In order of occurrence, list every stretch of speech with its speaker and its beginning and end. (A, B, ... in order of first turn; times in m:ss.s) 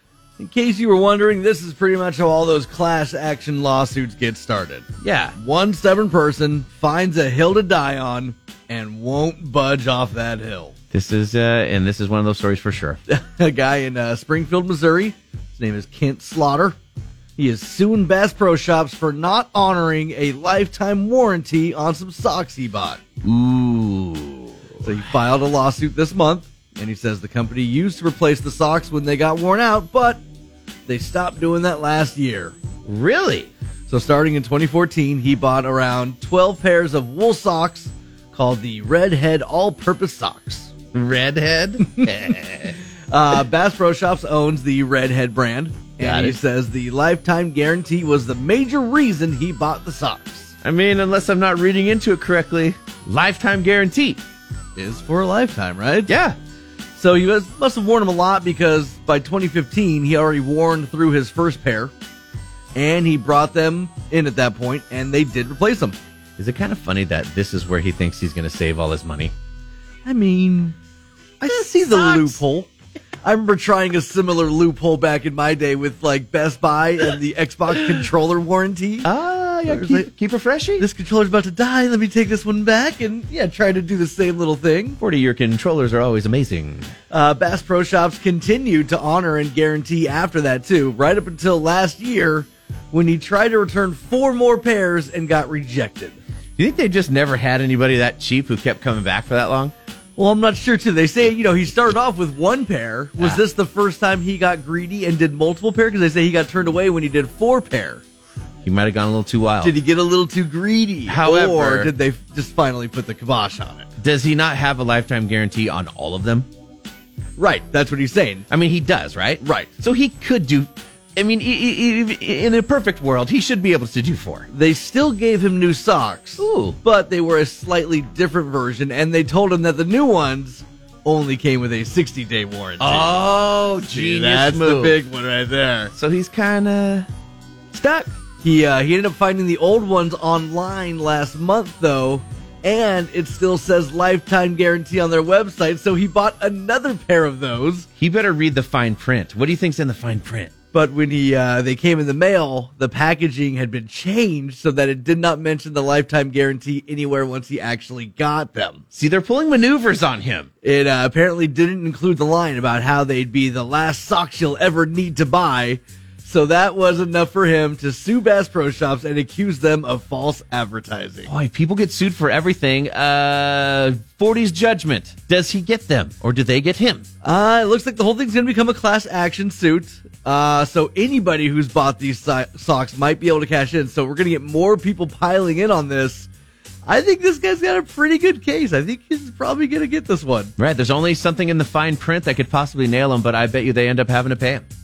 0:00.4-0:10.7 A
0:05.0-0:05.4 B
0:10.9-0:13.0 B
0:13.1-0:16.8 A
0:17.4-0:23.0 A
0:23.2-0:24.5 B
0:24.8-0:30.2 A
0:30.9-0:32.5 A
0:32.8-0:33.5 B
0:33.9-0:40.7 A
0:40.9-0:42.8 B
0:41.8-0:42.1 A
0:43.1-0:50.5 A
0:46.0-0:46.4 B
0:50.6-0:54.2 B
0:54.8-0:56.1 A
0:56.1-0:56.4 B
0:57.0-1:01.9 A
1:02.7-1:06.0 A
1:06.4-1:09.3 B
1:10.0-1:10.8 A
1:11.4-1:12.7 A
1:11.5-1:12.4 B
1:13.2-1:19.1 A
1:19.0-1:20.8 B
1:19.6-1:20.1 A
1:20.8-1:25.0 A
1:25.0-1:26.9 B
1:27.1-1:36.2 A
1:36.6-1:39.7 B
1:40.2-1:48.0 A
1:48.6-1:49.8 B
1:49.6-1:53.9 A
1:51.1-1:51.9 B
1:54.0-1:56.5 B
1:57.4-1:58.4 A
1:58.5-2:04.5 B
1:59.4-1:59.7 A
2:04.5-2:13.2 A
2:06.4-2:06.8 B
2:12.8-2:15.0 B
2:13.8-2:15.9 A
2:15.9-2:17.1 B
2:17.7-2:18.1 B
2:18.4-2:27.8 A
2:28.0-2:30.5 B
2:30.7-2:38.8 A
2:38.9-2:40.5 B
2:40.6-2:51.3 A
2:51.3-2:57.0 B
2:57.2-3:06.3 A
3:06.8-3:10.5 A
3:10.6-3:14.6 B